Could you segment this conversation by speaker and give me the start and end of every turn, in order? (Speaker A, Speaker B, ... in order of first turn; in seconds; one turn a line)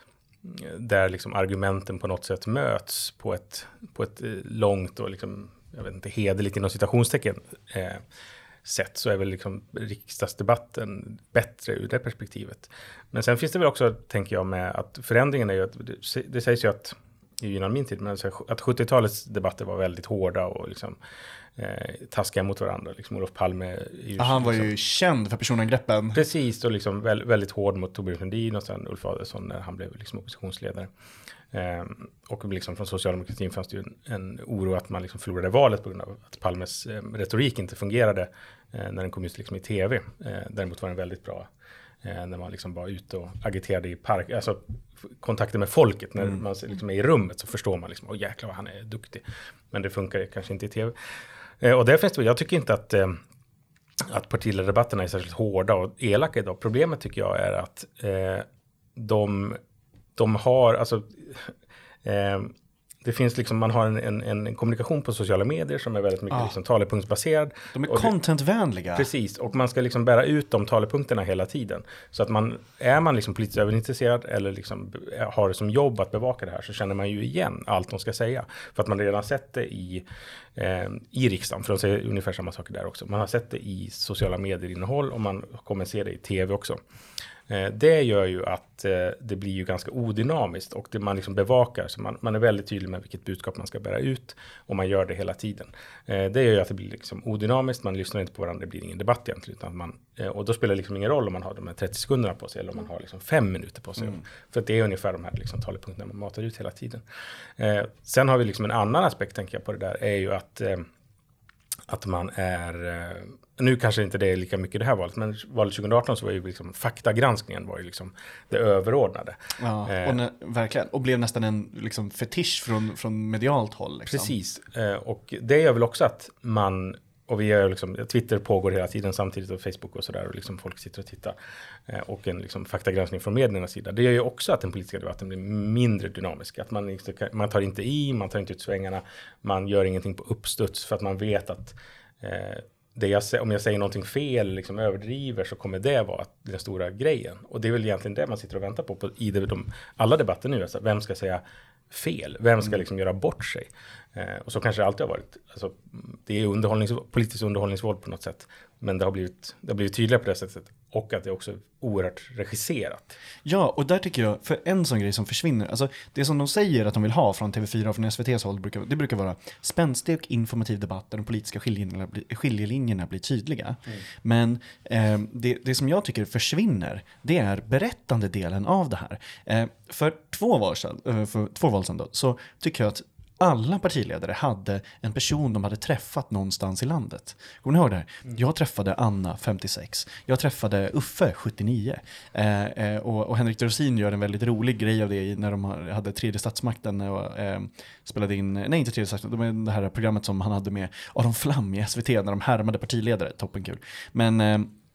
Speaker A: 0.4-8.0
Speaker A: 8.6-21.0
Speaker A: 21.6-24.7
Speaker B: 24.2-26.2
Speaker A: 26.1-30.9
Speaker A: 31.5-41.5
Speaker A: 42.0-51.0
Speaker A: 51.6-53.2
Speaker A: 54.0-59.6
Speaker A: 60.2-61.5
Speaker A: 62.0-62.5
Speaker A: 63.0-68.1
Speaker B: 66.3-66.5
Speaker B: 67.7-69.1
Speaker A: 68.9-80.0
Speaker A: 80.6-86.8
Speaker A: 87.5-107.0
Speaker A: 107.6-110.8
Speaker A: 111.9-120.2
Speaker B: 119.6-124.3
Speaker A: 124.0-131.3
Speaker A: 131.9-163.2
Speaker B: 163.4-204.7